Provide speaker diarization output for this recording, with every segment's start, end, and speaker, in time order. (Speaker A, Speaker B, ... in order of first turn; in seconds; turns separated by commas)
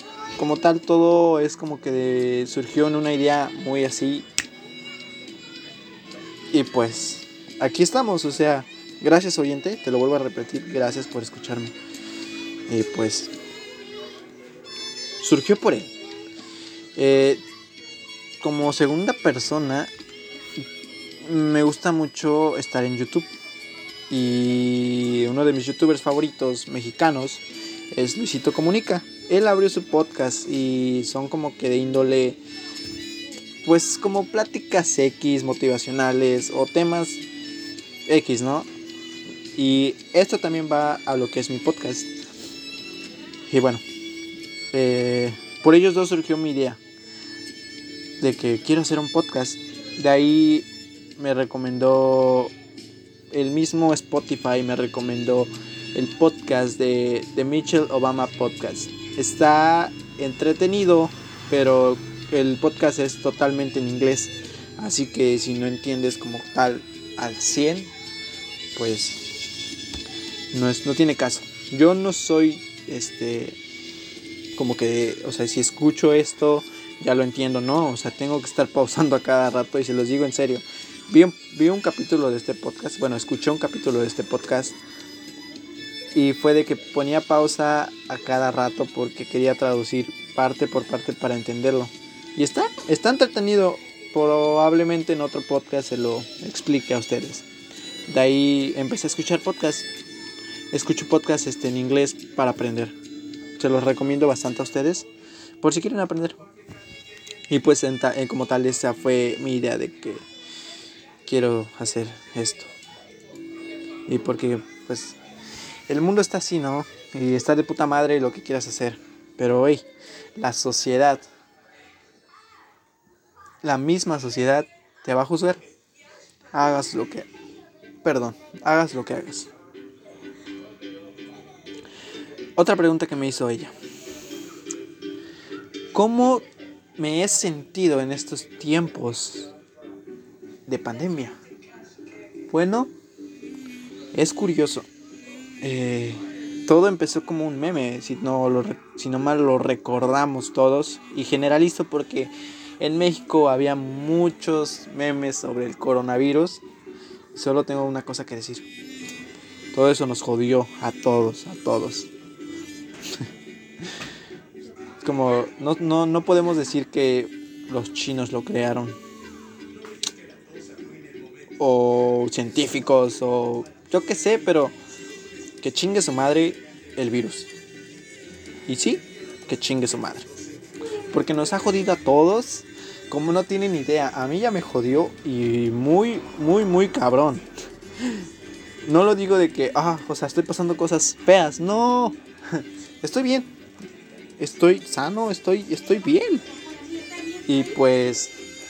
Speaker A: 0.4-4.3, Speaker A: 6.5-11.8, Speaker A: 12.7-13.3, Speaker A: 15.2-15.9, Speaker A: 17.0-17.4, Speaker A: 18.4-19.9, Speaker A: 21.2-23.3, Speaker A: 24.1-32.4, Speaker A: 33.6-37.2, Speaker A: 38.1-38.7, Speaker A: 39.6-42.1, Speaker A: 43.5-43.8, Speaker A: 44.7-46.8, Speaker A: 48.2-52.5, Speaker A: 53.3-67.9, Speaker A: 68.8-69.2, Speaker A: 70.5-73.6, Speaker A: 74.6-84.8, Speaker A: 86.1-97.5, Speaker A: 98.1-99.9, Speaker A: 100.7-103.0, Speaker A: 103.6-105.1, Speaker A: 105.6-106.4, Speaker A: 107.5-110.3, Speaker A: 111.2-112.7, Speaker A: 114.1-115.2, Speaker A: 115.9-121.3, Speaker A: 123.6-125.6, Speaker A: 126.5-127.3, Speaker A: 128.0-129.5, Speaker A: 132.6-133.7, Speaker A: 135.9-139.5, Speaker A: 140.7-141.4, Speaker A: 142.5-142.9, Speaker A: 144.1-144.9, Speaker A: 145.6-156.6, Speaker A: 157.3-158.7, Speaker A: 159.7-162.1, Speaker A: 165.0-169.0, Speaker A: 171.6-174.8, Speaker A: 175.6-177.5, Speaker A: 178.7-180.3, Speaker A: 181.1-187.5, Speaker A: 188.8-193.5, Speaker A: 194.4-196.4, Speaker A: 197.5-198.3